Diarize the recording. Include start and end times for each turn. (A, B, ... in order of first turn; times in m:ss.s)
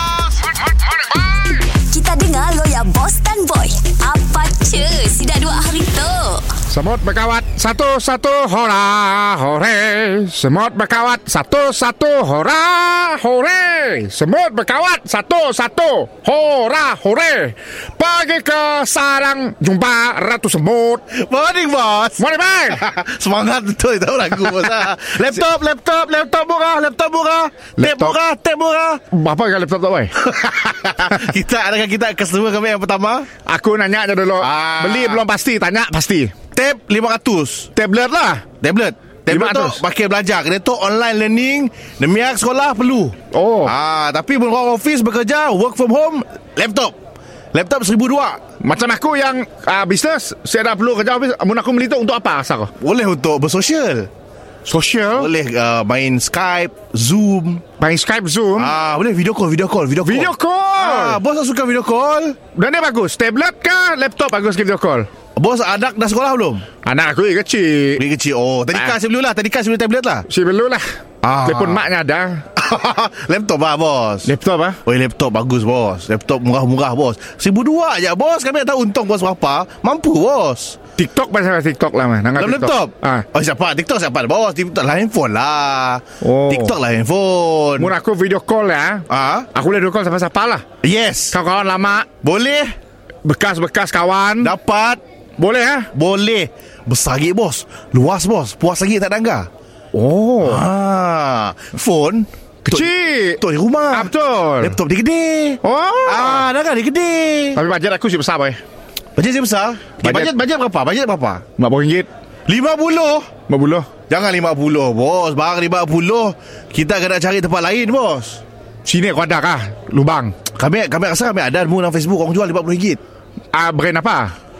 0:01.7-0:06.5 A
0:06.7-0:21.0 B
0:21.1-0:29.0 C
0:22.2-0:22.8 B
0:27.8-0:28.2 B
0:29.1-0:30.1 B
0:30.2-0:33.3 C
0:33.4-0:36.3 B
0:34.4-0:35.2 C
0:36.5-0:37.7 C
0:37.8-0:38.4 B
0:38.6-0:47.0 C
0:39.3-0:39.8 B
0:43.3-0:43.7 B
0:47.5-0:48.4 C
0:48.6-0:52.7 B
0:52.8-0:54.1 C
0:54.7-0:55.3 B
0:55.1-0:57.6 C
0:57.8-0:58.7 B
0:58.6-1:02.4 C
1:00.0-1:01.2 B
1:02.5-1:05.1 B
1:05.4-1:06.6 C
1:06.8-1:08.0 B
1:08.0-1:10.2 C
1:10.3-1:10.8 B
1:11.2-1:11.8 C
1:11.4-1:12.4 B
1:12.6-1:14.3 C
1:14.2-1:14.8 B
1:14.8-1:20.8 C
1:21.0-1:23.2 B
1:22.4-1:27.9 C
1:26.2-1:26.7 B
1:27.8-1:30.6 B
1:29.1-1:29.5 C
1:30.8-1:31.4 C
1:31.3-1:32.1 B
1:32.2-1:32.7 C
1:33.2-1:34.5 B
1:34.4-1:35.0 C
1:35.4-1:35.9 B
1:35.9-1:39.5 C
1:39.9-1:40.6 B
1:40.4-1:47.6 C
1:42.7-1:43.4 B
1:43.9-1:44.8 B
1:45.6-1:46.5 B
1:47.5-1:48.6 B
1:49.2-1:51.4 C
1:50.0-1:50.3 B
1:51.6-1:52.1 B
1:52.5-1:53.3 C
1:53.5-1:53.9 B
1:54.1-1:58.4 C
1:58.8-2:00.3 B
2:00.5-2:03.0 C
2:03.5-2:04.3 B